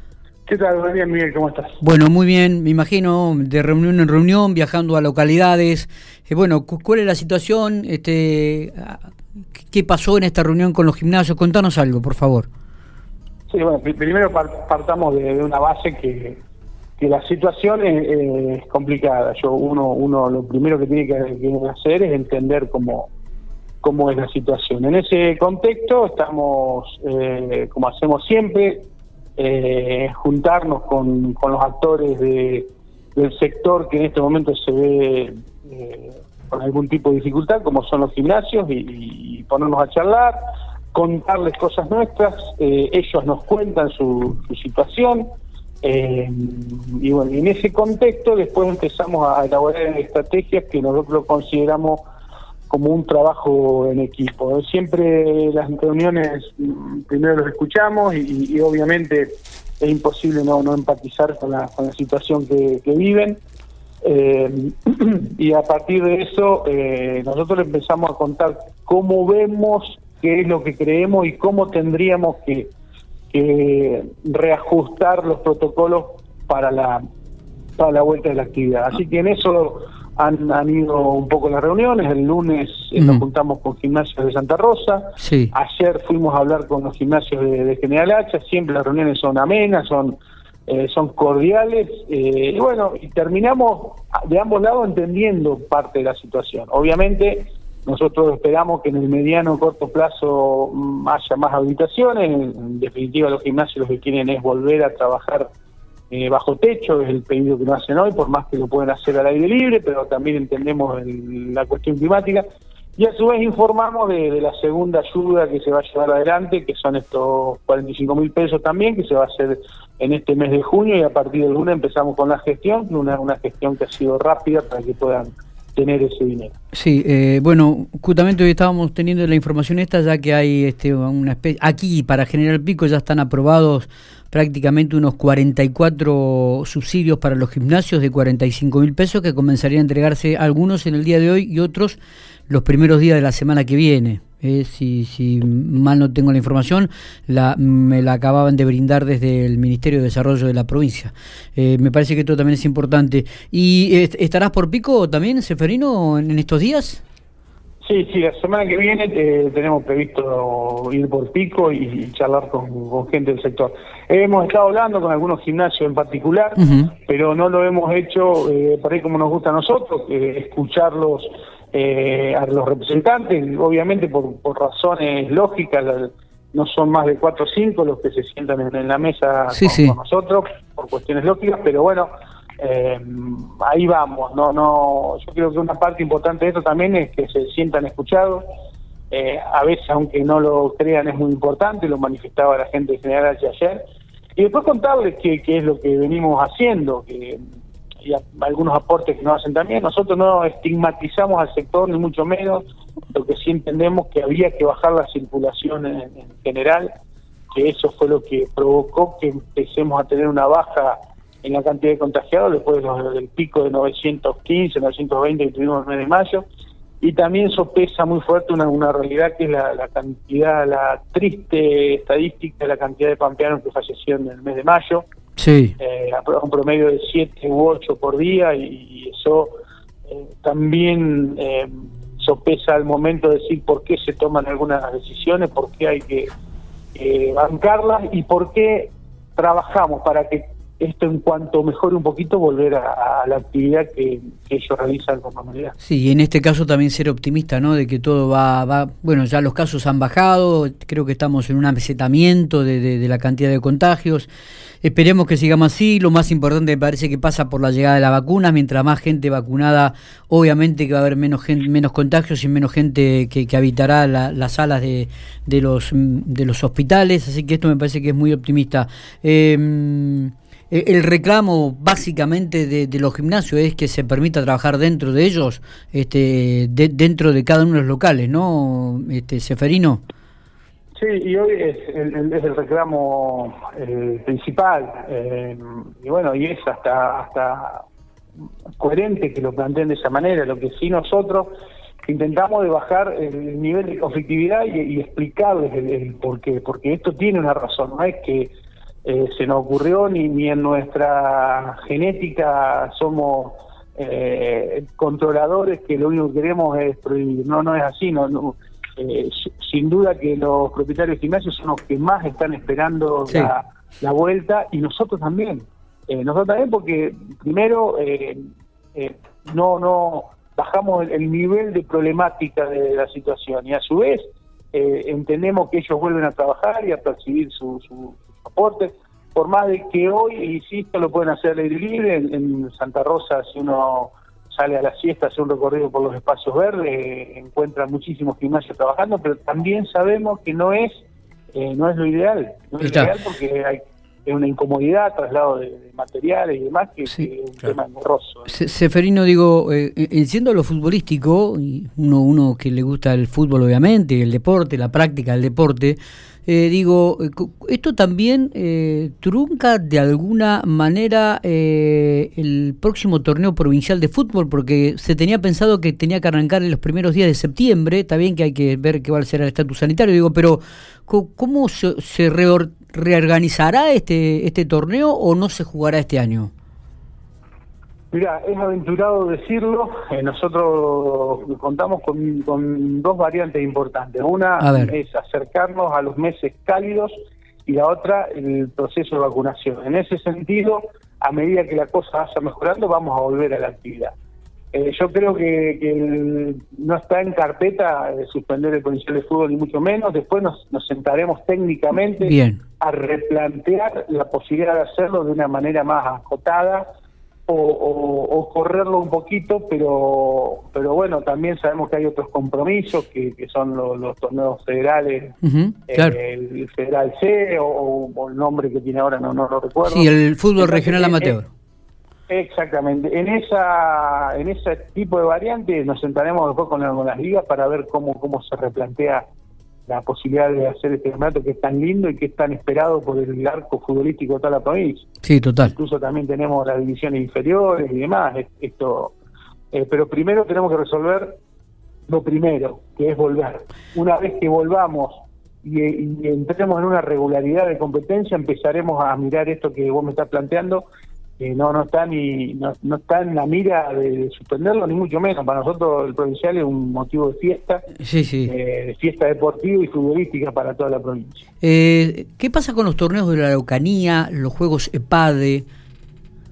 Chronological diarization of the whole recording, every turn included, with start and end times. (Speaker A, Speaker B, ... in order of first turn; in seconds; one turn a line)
Speaker A: 0.5-1.8
Speaker B: 1.8-9.1
Speaker B: 9.6-12.5
Speaker A: 13.5-16.4
Speaker A: 17.0-23.1
Speaker A: 23.8-40.4
Speaker A: 40.9-45.3
Speaker A: 45.8-52.0
Speaker A: 52.7-63.4
Speaker A: 64.0-72.7
Speaker A: 73.3-77.0
Speaker A: 77.8-105.5
Speaker B: 83.0-83.2
Speaker B: 85.2-85.5
Speaker A: 106.1-112.5
Speaker A: 113.0-126.5
Speaker B: 126.7-142.0
Speaker B: 142.5-157.0
Speaker A: 157.8-188.4
Speaker B: 166.6-166.9
Speaker B: 179.5-180.0
Speaker A: 189.1-193.8
Speaker A: 194.4-197.4
Speaker A: 198.0-206.9
Speaker A: 207.5-216.4
Speaker A: 217.0-225.1
Speaker B: 225.4-225.7
Speaker A: 225.8-229.5
Speaker A: 230.1-236.3
Speaker A: 236.9-245.8
Speaker B: 245.8-254.3
Speaker B: 254.8-280.0
Speaker A: 281.0-287.8
Speaker A: 288.8-291.5
Speaker A: 292.0-298.5
Speaker A: 299.1-318.4
Speaker A: 318.9-348.5
Speaker B: 342.8-343.1
Speaker B: 348.5-376.5
Speaker A: 378.1-387.1
Speaker B: 384.6-384.9
Speaker A: 387.7-394.1
Speaker A: 394.7-406.9
Speaker B: 402.2-402.6
Speaker A: 407.5-415.4
Speaker B: 415.4-416.2
Speaker A: 415.9-421.4
Speaker B: 419.9-421.5
Speaker A: 422.3-429.2
Speaker A: 429.9-435.1
Speaker B: 435.2-435.7
Speaker A: 435.7-439.2
Speaker A: 439.7-441.4
Speaker A: 442.1-450.9
Speaker A: 451.4-457.9
Speaker B: 458.0-458.5
Speaker A: 458.5-461.4
Speaker B: 461.6-465.7